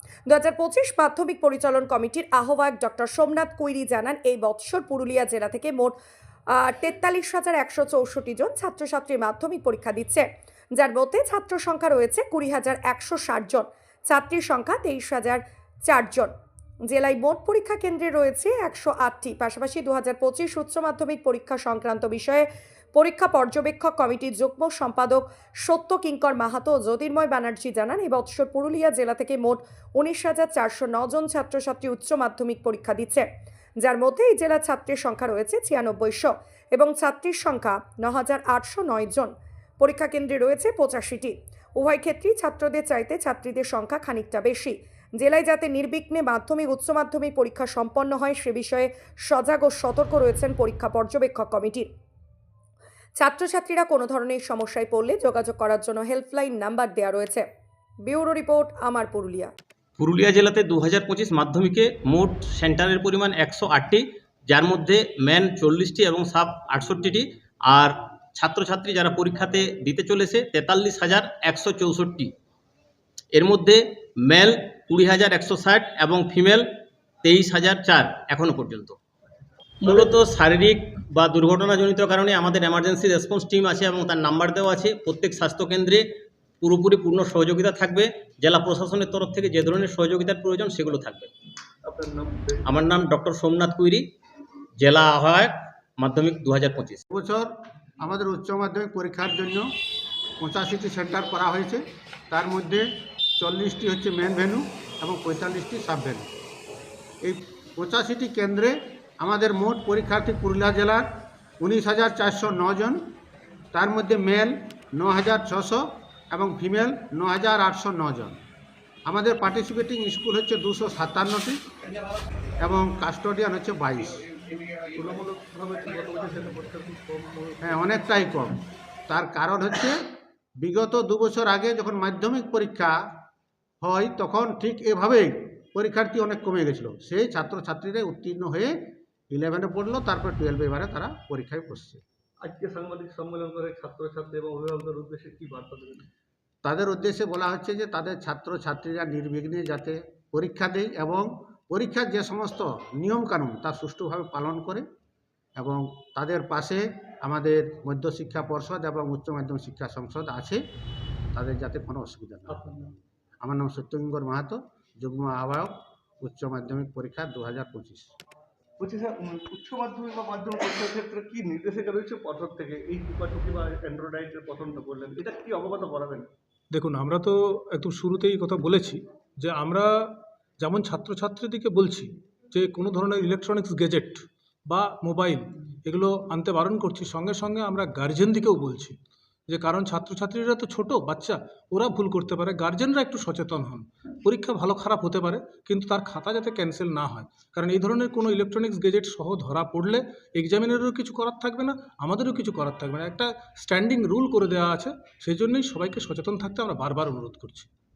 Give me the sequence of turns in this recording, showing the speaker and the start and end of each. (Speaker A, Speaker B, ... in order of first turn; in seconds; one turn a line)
Speaker A: 0.3-5.9
Speaker A: 6.5-16.3
Speaker A: 16.9-33.2
Speaker A: 33.8-51.9
Speaker A: 53.2-57.4
Speaker A: 58.0-59.5
Speaker B: 60.0-72.3
Speaker B: 73.3-76.7
Speaker B: 77.2-79.0
Speaker B: 79.8-86.0
Speaker B: 86.6-91.3
Speaker C: 91.8-93.0
Speaker B: 92.7-94.1
Speaker B: 94.8-97.0
Speaker D: 97.1-99.7
Speaker D: 100.4-102.9
Speaker D: 103.4-106.3
Speaker D: 107.2-111.1
Speaker D: 111.6-113.1
Speaker D: 113.7-118.4
Speaker D: 119.1-121.6
Speaker D: 122.6-124.2
Speaker C: 124.9-128.3
Speaker D: 127.6-133.0
Speaker D: 133.8-138.7
Speaker D: 139.3-142.0
Speaker C: 142.4-146.1
Speaker D: 146.6-154.8
Speaker D: 155.6-160.6
Speaker D: 161.3-162.6
Speaker C: 162.5-162.9
Speaker D: 163.4-168.1
Speaker C: 168.8-176.3
Speaker E: 176.7-188.9
Speaker E: 189.5-207.7